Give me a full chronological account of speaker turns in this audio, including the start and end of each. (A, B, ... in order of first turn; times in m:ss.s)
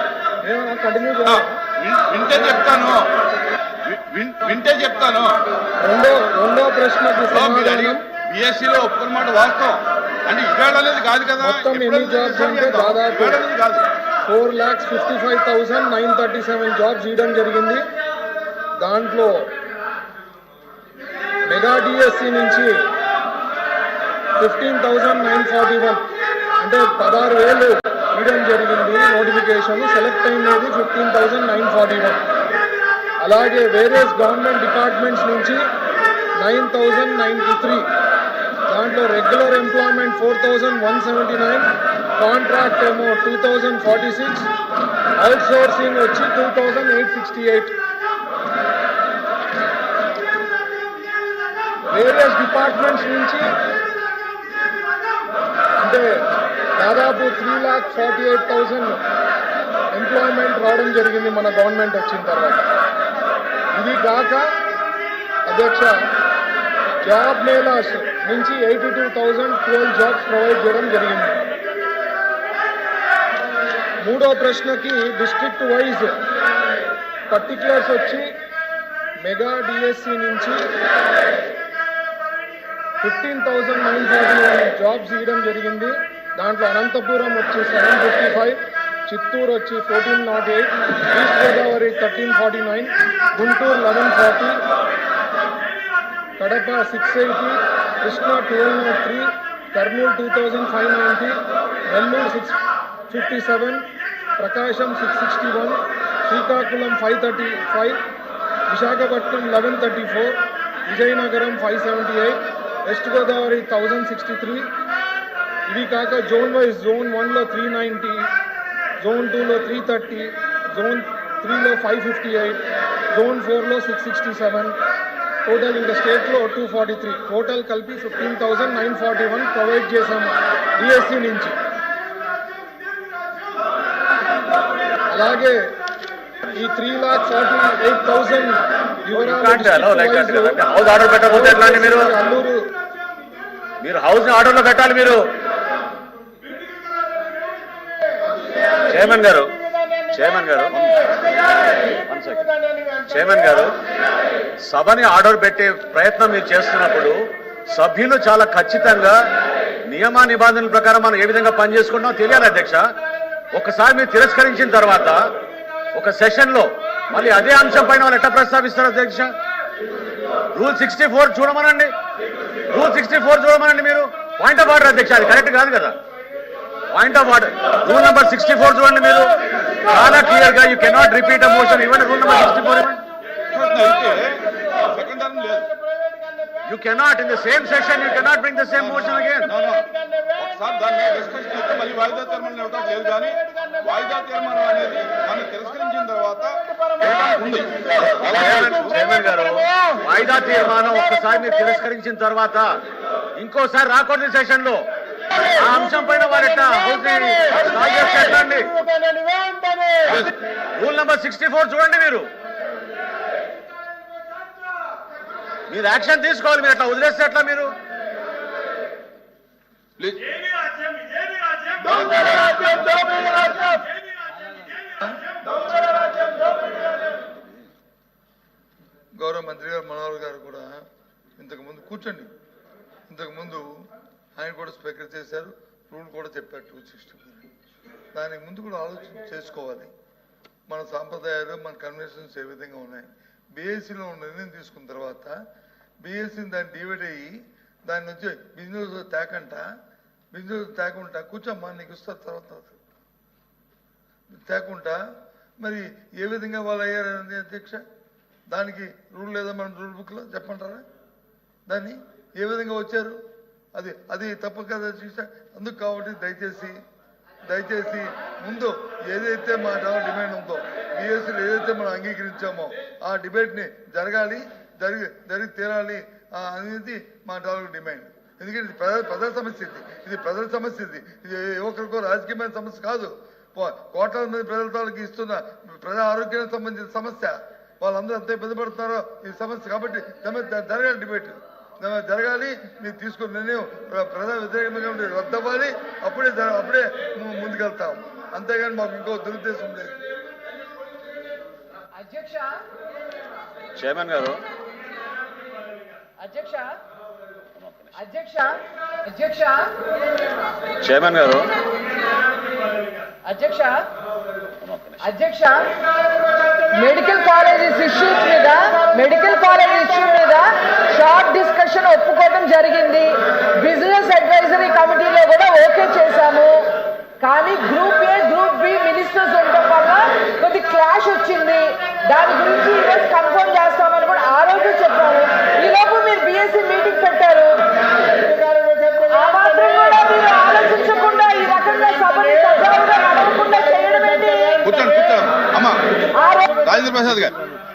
0:00.4-0:01.6 A
0:01.2-0:03.1 B
0:03.8-0:05.4 B
0:05.8-0:08.0 A
0:07.3-0:13.9 B
0:11.4-0:13.4 A
0:14.2-0:17.9 A
0:18.8-0:19.5 A
0:21.4-0:22.8 A
0:24.4-0:26.0 A
0:26.6-0:32.2 A
0:33.2-0:35.6 A
0:36.4-0:37.9 A
0:38.6-0:44.5 A
0:45.2-0:47.8 A
0:51.9-0:53.5 A
0:55.8-0:56.1 A
0:56.8-0:59.0 A
0:59.9-1:02.7 A
1:03.7-1:04.5 A
1:05.5-1:06.1 A
1:07.0-1:11.4 A
1:14.0-1:16.2 A
1:17.3-1:18.3 A
1:19.2-1:20.6 A
1:23.0-1:34.6 A
1:36.4-1:42.6 A
1:43.1-1:43.8 A
1:44.4-1:48.0 A
1:48.7-1:54.7 A
1:55.7-1:58.3 A
1:59.0-2:04.8 A
2:05.4-2:11.5 A
2:15.1-2:15.6 A
2:16.5-2:20.6 A
2:19.1-2:22.1 C
2:21.2-2:22.7 A
2:23.8-2:25.2 C
2:28.9-2:33.7 C
2:34.6-2:39.2 C
2:39.9-2:42.9 C
2:43.5-2:45.3 C
2:45.9-2:49.3 C
2:50.5-2:51.9 C
2:52.7-2:56.0 C
2:56.9-3:03.0 C
3:03.4-3:05.7 B
3:06.6-3:09.5 C
3:08.7-3:19.1 B
3:18.4-3:22.7 C
3:23.4-3:24.8 C
3:25.5-3:29.0 C
3:30.0-3:30.3 B
3:30.8-3:32.3 C
3:35.7-3:37.7 C
3:40.0-3:40.3 B
3:42.0-3:43.6 B
3:49.2-3:50.8 D
3:51.4-3:52.3 D
3:53.1-3:53.7 D
3:54.4-3:57.4 D
3:58.1-3:59.9 D
4:00.7-4:05.3 D
4:06.0-4:09.6 D
4:10.3-4:12.7 D
4:14.4-4:15.0 D
4:15.6-4:17.8 D
4:18.5-4:20.8 D
4:21.7-4:23.2 D
4:23.7-4:26.8 D
4:27.5-5:00.0 D
5:01.9-5:02.6 E
5:03.8-5:04.4 C
5:06.2-5:06.8 E
5:08.0-5:09.8 E
5:10.8-5:11.5 C
5:13.2-5:13.9 E
5:14.6-5:14.9 C
5:15.0-5:15.8 E
5:16.7-5:37.6 E
5:39.0-5:44.6 E
5:44.6-5:47.4 B
5:46.2-5:46.5 E